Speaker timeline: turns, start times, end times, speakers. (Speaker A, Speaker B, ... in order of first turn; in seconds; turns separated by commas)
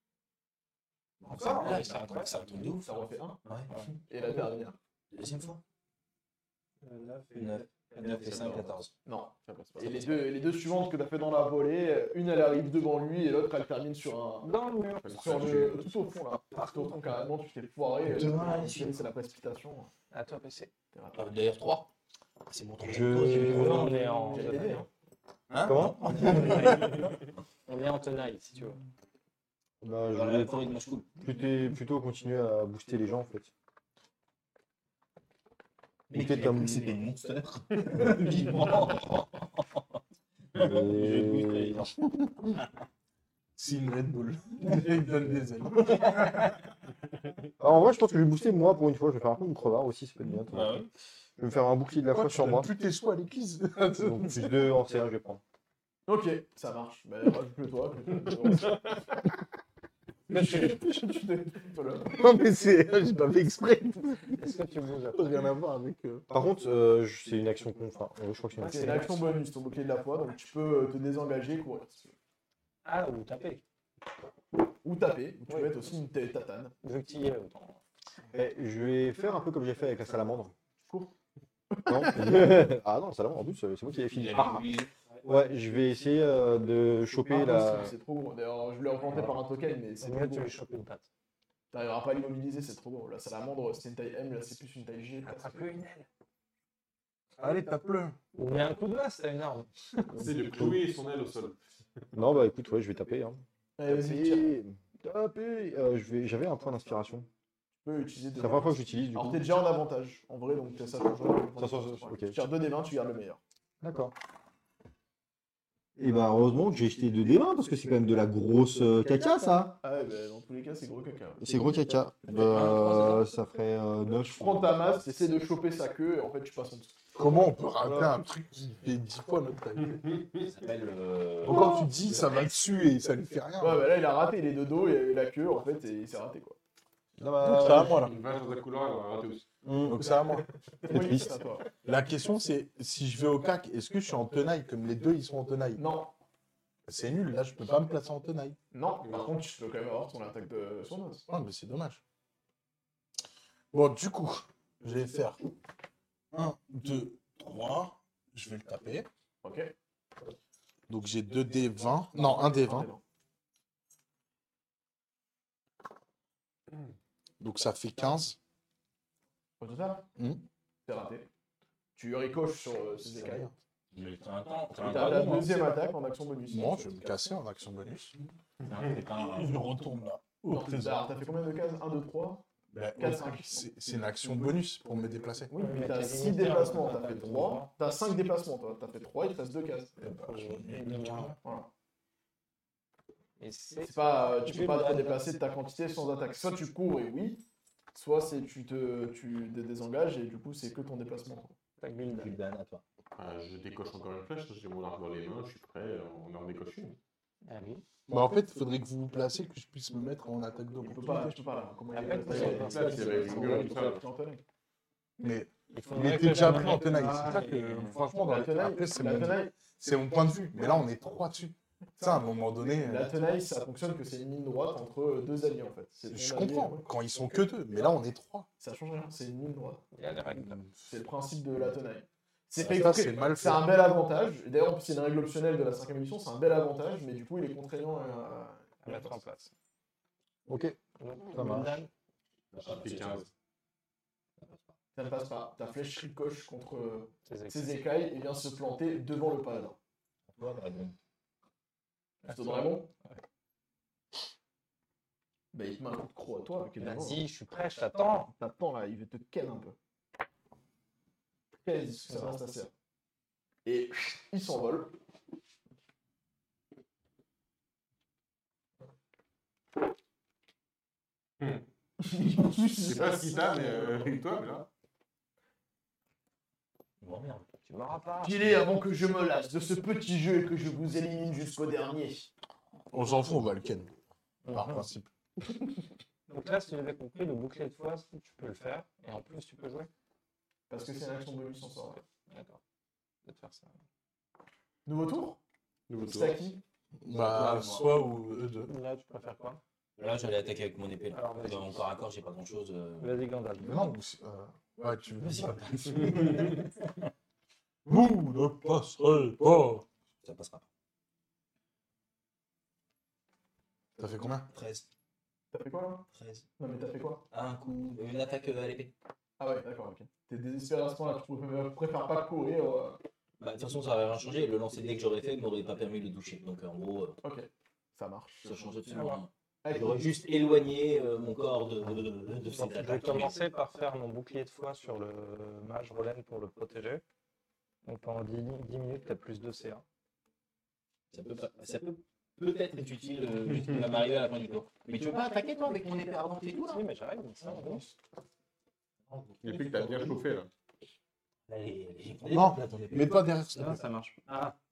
Speaker A: 1.2-3.7, Speaker B: 1.3-2.5, Speaker C: 2.8-3.4, Speaker B: 3.7-4.4, Speaker C: 4.0-4.8, Speaker A: 5.1-5.6, Speaker B: 6.8-8.8, Speaker A: 7.4-8.9, Speaker D: 8.3-8.6, Speaker C: 9.1-14.5, Speaker D: 9.5-9.8, Speaker A: 9.8-10.3, Speaker B: 14.4-15.4, Speaker D: 15.0-15.9, Speaker C: 15.2-19.9, Speaker A: 18.0-19.0, Speaker B: 20.1-20.7, Speaker C: 20.9-21.3, Speaker A: 21.1-21.9, Speaker A: 22.5-24.0, Speaker E: 22.8-23.9, Speaker B: 23.2-24.9, Speaker C: 23.4-24.9, Speaker A: 25.5-27.0, Speaker E: 25.6-26.8, Speaker B: 26.1-27.1, Speaker B: 27.7-28.8, Speaker E: 29.8-30.6, Speaker A: 30.1-31.2, Speaker E: 31.2-33.5, Speaker A: 36.1-40.0, Speaker E: 36.1-37.0, Speaker A: 40.5-41.9, Speaker E: 40.6-41.9, Speaker F: 43.6-46.6, Speaker E: 47.6-52.7, Speaker A: 50.5-50.9, Speaker F: 52.1-54.6, Speaker E: 54.0-55.4, Speaker C: 56.1-59.0, Speaker C: 60.3-62.2, Speaker B: 60.3-60.7, Speaker F: 62.1-64.4, Speaker B: 64.3-65.6, Speaker F: 65.1-66.2, Speaker E: 66.3-69.2, Speaker B: 68.6-69.2, Speaker C: 68.6-72.2, Speaker B: 72.8-73.6, Speaker C: 74.8-76.7, Speaker B: 75.5-75.9, Speaker B: 76.8-77.8, Speaker E: 78.3-80.5, Speaker C: 80.8-81.1, Speaker C: 81.7-82.7, Speaker E: 81.9-84.7, Speaker A: 84.1-84.9, Speaker E: 85.2-88.0, Speaker C: 87.3-90.5, Speaker B: 90.0-91.1, Speaker C: 91.7-95.7, Speaker B: 95.2-96.1, Speaker F: 97.4-98.2, Speaker B: 98.3-99.7, Speaker E: 100.1-100.9, Speaker D: 100.1-101.6, Speaker E: 102.1-107.3, Speaker C: 103.8-104.5, Speaker C: 107.8-113.4, Speaker E: 108.4-109.4, Speaker E: 111.6-112.4, Speaker E: 113.8-114.2, Speaker E: 116.0-119.8, Speaker C: 119.8-122.0, Speaker E: 121.4-125.2, Speaker C: 122.5-122.8, Speaker A: 122.5-123.1, Speaker C: 124.2-127.0, Speaker F: 127.2-130.0, Speaker C: 127.8-128.2, Speaker D: 129.9-130.4, Speaker A: 130.4-131.9, Speaker F: 131.4-133.9, Speaker C: 133.6-136.6, Speaker E: 137.2-138.0, Speaker C: 137.4-138.1, Speaker F: 137.5-138.2, Speaker D: 138.1-139.5, Speaker E: 139.6-140.1, Speaker F: 139.9-140.5, Speaker C: 140.8-141.7, Speaker E: 140.9-141.3, Speaker F: 141.8-145.8, Speaker C: 145.8-146.1, Speaker F: 146.9-148.6, Speaker C: 148.7-151.3, Speaker D: 149.0-149.3, Speaker F: 151.3-152.0, Speaker F: 153.7-155.4, Speaker F: 156.3-159.1, Speaker C: 159.4-159.7, Speaker F: 160.9-162.9, Speaker C: 162.1-163.0, Speaker F: 167.4-168.4, Speaker C: 169.6-170.1, Speaker F: 170.2-170.4, Speaker C: 170.8-171.3, Speaker C: 172.0-173.5, Speaker F: 173.1-173.5, Speaker A: 173.9-175.6, Speaker C: 174.8-177.2, Speaker F: 176.5-178.2, Speaker A: 178.7-179.7, Speaker F: 179.3-181.0, Speaker C: 180.5-183.7, Speaker F: 182.7-185.5, Speaker C: 185.5-190.0, Speaker B: 185.6-187.7, Speaker F: 190.0-191.4, Speaker B: 190.2-191.3, Speaker C: 191.4-191.7, Speaker B: 193.4-195.2, Speaker C: 193.8-201.6, Speaker B: 201.8-202.4, Speaker A: 202.1-202.8, Speaker D: 203.2-207.0, Speaker B: 207.4-207.8, Speaker F: 208.1-211.4, Speaker C: 210.8-214.4, Speaker B: 211.9-213.8, Speaker D: 212.3-214.0, Speaker F: 212.3-212.6, Speaker F: 215.2-223.1, Speaker B: 215.7-217.9, Speaker C: 218.2-219.6, Speaker C: 222.6-226.9, Speaker F: 226.1-228.5, Speaker C: 228.6-229.8, Speaker B: 229.9-230.6, Speaker F: 230.3-230.8, Speaker C: 230.8-239.2, Speaker F: 232.6-233.7, Speaker B: 238.8-239.5, Speaker E: 240.5-241.8, Speaker B: 241.0-241.9, Speaker A: 242.5-243.3, Speaker D: 242.6-243.3, Speaker C: 244.9-249.8, Speaker B: 247.2-247.8, Speaker A: 250.3-250.9, Speaker B: 252.2-253.2, Speaker C: 252.3-252.9, Speaker C: 255.5-257.2, Speaker B: 256.8-258.3, Speaker C: 258.4-259.8, Speaker C: 261.6-262.7, Speaker C: 263.6-264.9, Speaker C: 272.0-273.9, Speaker D: 272.8-274.7, Speaker A: 277.0-277.5, Speaker B: 277.6-278.4, Speaker C: 278.2-282.3, Speaker F: 282.9-283.9, Speaker B: 284.4-284.9, Speaker F: 284.5-285.1, Speaker B: 286.3-289.9, Speaker C: 290.7-292.0, Speaker B: 292.3-292.6, Speaker B: 293.2-293.8, Speaker C: 294.9-295.4, Speaker D: 295.9-296.4, Speaker C: 296.0-296.6, Speaker F: 297.0-298.7, Speaker A: 297.1-297.9, Speaker B: 298.7-299.6, Speaker A: 300.0-303.1, Speaker B: 301.1-301.9, Speaker B: 303.0-303.9, Speaker F: 303.6-306.6, Speaker A: 305.2-306.7, Speaker F: 307.9-309.9, Speaker A: 310.2-310.6, Speaker F: 314.0-314.5, Speaker A: 314.5-314.9, Speaker C: 315.5-316.1, Speaker A: 316.1-316.5, Speaker C: 316.6-317.3, Speaker A: 317.3-318.9, Speaker C: 319.4-323.0, Speaker A: 323.4-327.2, Speaker C: 327.2-328.6, Speaker A: 328.4-333.4, Speaker B: 328.9-329.2, Speaker C: 329.6-330.2, Speaker B: 332.4-337.0, Speaker B: 337.9-339.8, Speaker A: 341.1-346.8, Speaker B: 346.6-347.9, Speaker A: 349.3-350.0, Speaker D: 349.4-350.5, Speaker A: 351.5-353.2, Speaker F: 352.2-353.8, Speaker B: 353.5-354.6